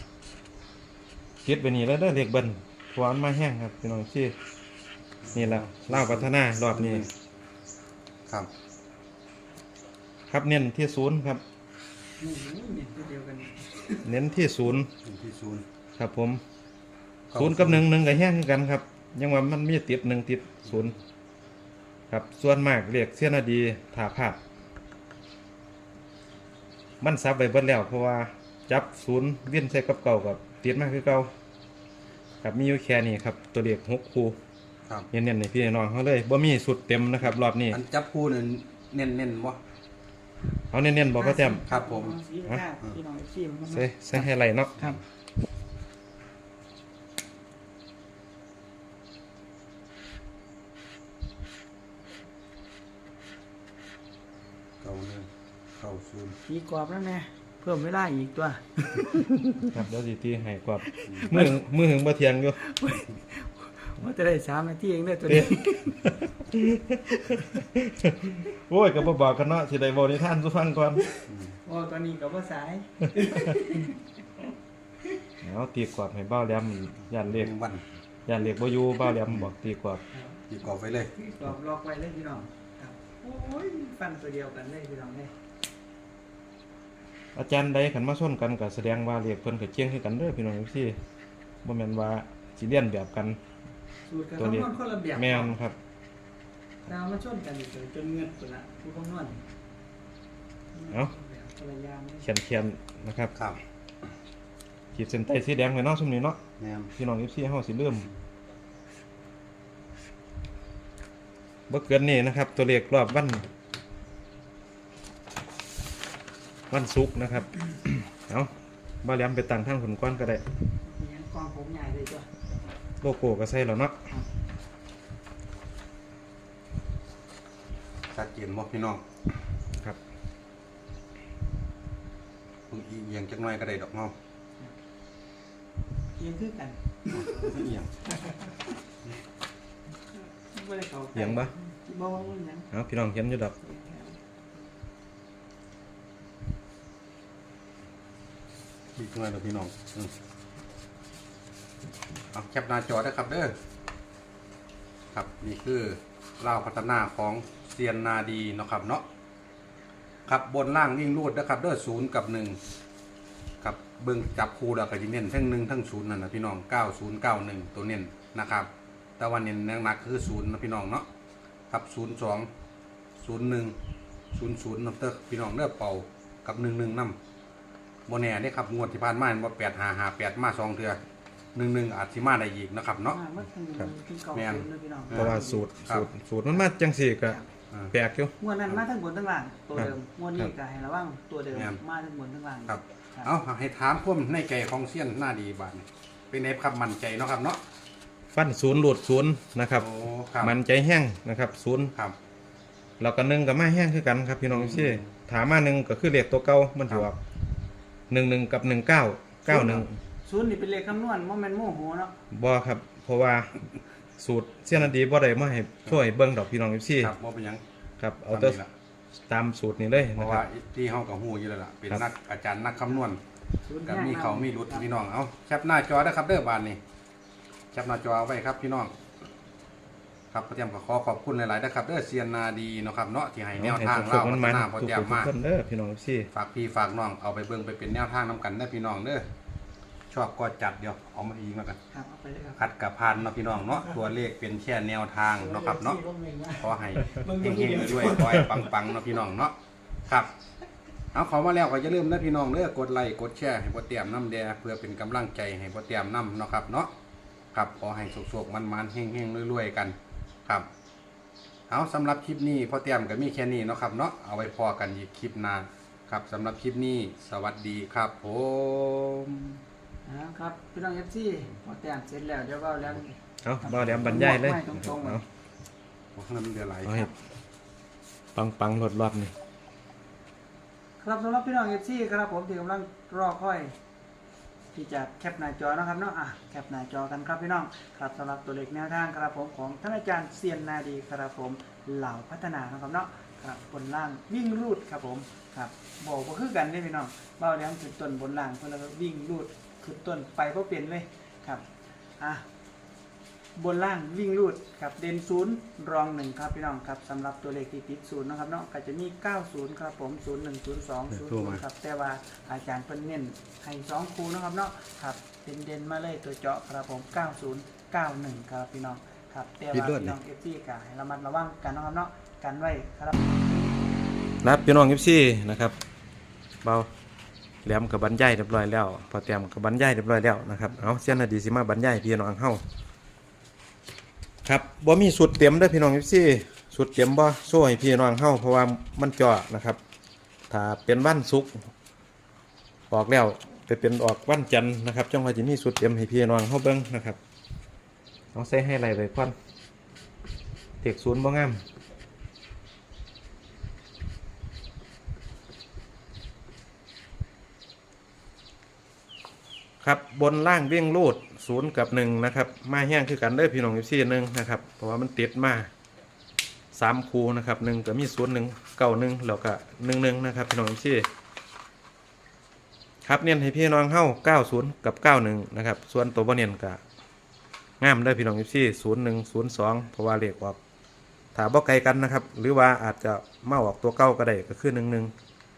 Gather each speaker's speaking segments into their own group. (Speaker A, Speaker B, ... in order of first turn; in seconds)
Speaker A: 1.4-4.3, 5.3-7.0, 10.3-11.4, 14.0-14.9, 16.0-16.4, 17.3-20.9, 22.1-24.4, 27.0-31.3, 32.4-34.4, 35.1-37.8, 40.7-41.6, 43.7-44.9, 59.7-62.6, 65.3-71.1, 73.2-73.6, 75.4-77.5, 78.2-80.0, 87.3-91.0, 91.6-93.4, 94.4-95.8, 102.2-103.3, 104.9-106.4, 107.0-108.1, 111.7-113.4, 116.7-118.5, 119.0-120.4, 123.0-123.9, 141.1-141.5, 142.7-143.5, 185.1-187.4, 187.9-188.3, 189.8-190.5, 198.3-199.9, 200.4-201.9, 203.0-207.2, 208.1-209.9, 212.3-213.6, 214.2-217.1, 218.0-218.6, 219.2-220.4, 233.6-236.3, 273.4-275.2, 276.8-277.1, 278.3-279.3, 324.4-325.8, 327.6-332.6, 334.4-339.8, 340.5-341.6, 342.9-347.2, 348.3-349.3, 350.8-351.6, 359.8-365.7, 366.7-371.1, 373.0-376.8, 377.8-380.6, 381.3-385.1
Speaker B: 5.2-7.1, 15.0-15.6, 17.3-17.9, 37.2-39.6, 41.7-42.2, 54.8-56.4, 61.1-61.4, 71.3-71.6, 77.4-77.8, 80.5-81.1, 106.6-106.9, 128.1-129.0, 132.7-134.1, 137.1-137.9, 148.9-150.1, 152.3-153.5, 155.1-159.0, 160.3-162.6, 163.6-171.1, 171.7-172.5, 173.2-173.7, 174.3-177.2, 178.1-181.0, 181.5-183.2, 183.8-186.1, 191.5-191.8, 192.7-197.6, 199.8-200.5, 204.5-205.1, 217.0-217.6, 218.3-218.7, 220.1-223.2, 223.8-226.8, 227.7-228.9, 230.3-235.3, 236.3-239.2, 240.1-241.8, 242.6-246.0, 246.6-249.5, 251.1-256.9, 257.5-259.9, 261.7-269.6, 273.7-274.3, 276.1-277.0, 311.1-311.6, 319.7-320.1
Speaker C: 12.2-14.1, 41.1-45.0, 56.4-59.7, 60.9-61.5, 62.6-66.2, 67.1-67.6, 71.6-74.0, 80.1-80.4, 81.1-85.3, 94.1-95.6, 96.8-99.4, 100.7-102.2, 120.8-122.3, 136.2-138.6, 140.1-142.7, 143.6-144.2, 183.1-185.7, 188.4-193.3, 209.5-212.1, 223.6-224.9, 241.9-242.6, 245.4-248.6, 270.0-275.2, 281.0-283.7, 284.7-301.6, 302.2-302.4, 303.5-323.1